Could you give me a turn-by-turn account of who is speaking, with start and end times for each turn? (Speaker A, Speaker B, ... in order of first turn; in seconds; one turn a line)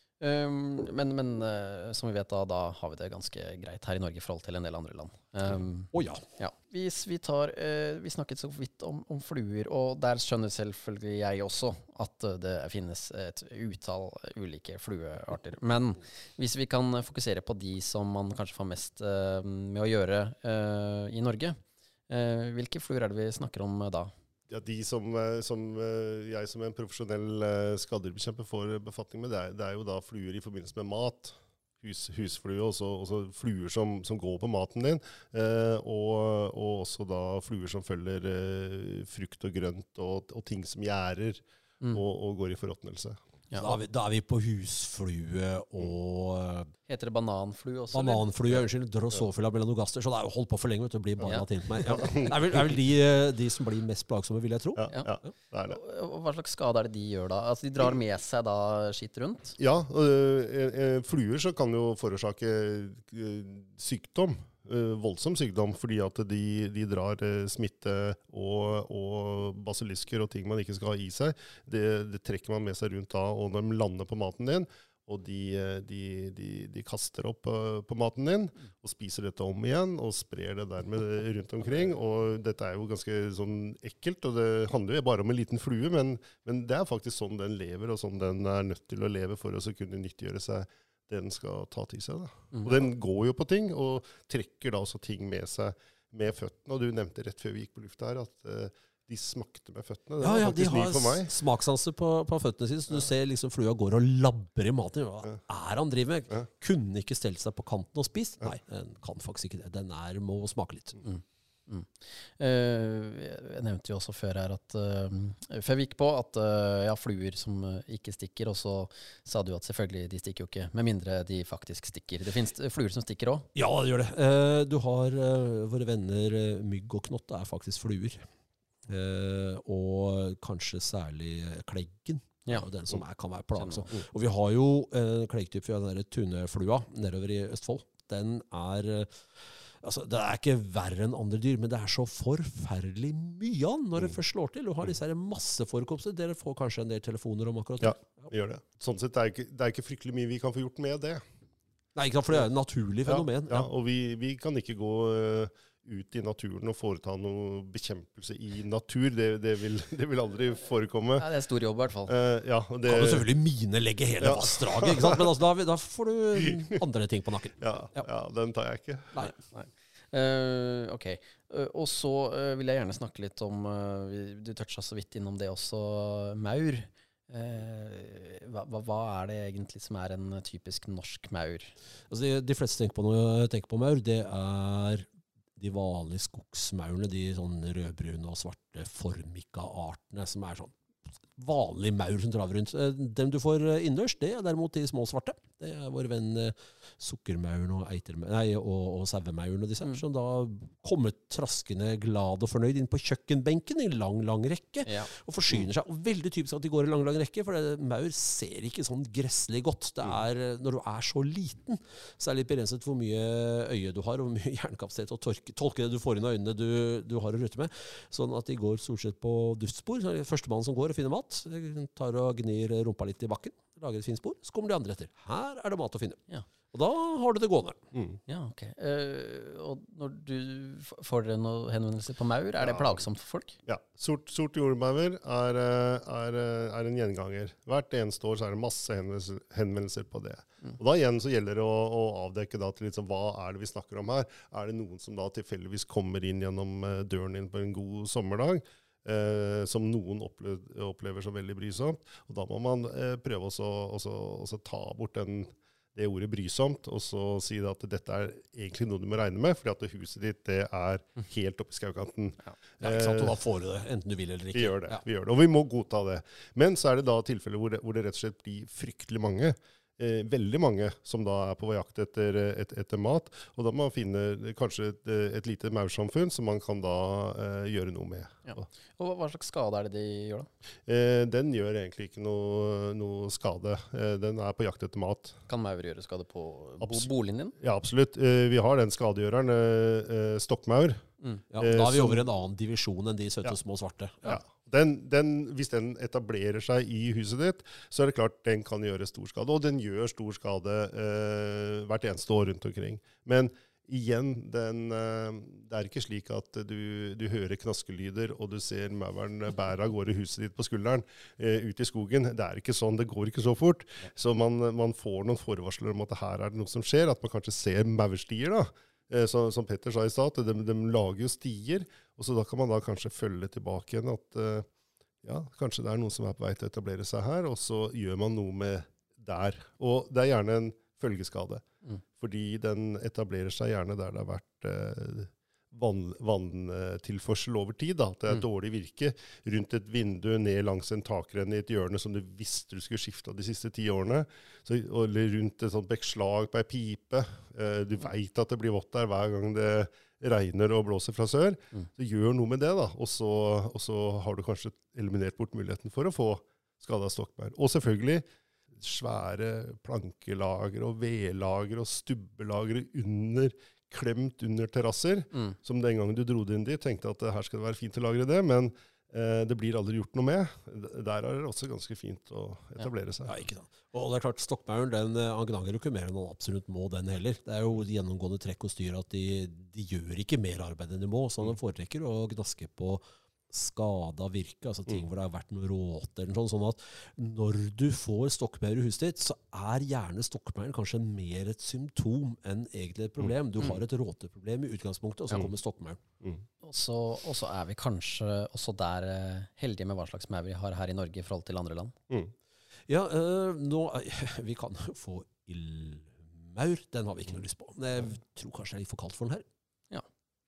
Speaker A: 0.2-24.1
Speaker B: 5.9-6.2
Speaker C: 24.5-43.2
Speaker B: 43.6-46.7
Speaker A: 46.9-48.2
Speaker B: 47.9-54.9
Speaker C: 51.9-52.3
Speaker C: 54.8-55.8
Speaker A: 55.7-59.5
Speaker C: 59.6-101.3
Speaker B: 100.2-111.0
Speaker A: 111.0-123.5
Speaker B: 123.5-128.2
Speaker B: 128.9-148.3
Speaker A: 133.5-133.9
Speaker C: 147.8-151.2
Speaker B: 151.9-153.7
Speaker C: 153.1-161.2
Speaker A: 161.2-162.1
Speaker C: 162.1-163.3
Speaker B: 162.8-168.0
Speaker C: 164.2-165.2
Speaker C: 166.4-166.8
Speaker C: 167.6-169.3
Speaker A: 169.5-181.7
Speaker B: 182.1-190.7
Speaker B: 191.4-226.2
Speaker A: 204.8-205.1
Speaker B: 226.7-227.8
Speaker C: 227.9-228.2
Speaker A: 228.3-233.6
Speaker C: 232.6-233.0
Speaker C: 233.7-263.4
Speaker B: 262.8-265.0
Speaker C: 264.5-278.6
Speaker A: 278.4-280.5
Speaker C: 280.9-285.4
Speaker A: 285.5-287.5
Speaker C: 286.8-291.1
Speaker B: 291.5-294.4
Speaker C: 291.6-292.2
Speaker C: 294.2-324.7
Speaker C: 325.2-331.6
Speaker C: 332.2-373.3
Speaker B: 373.2-396.0
Speaker A: 396.6-401.9
Speaker B: 402.9-409.4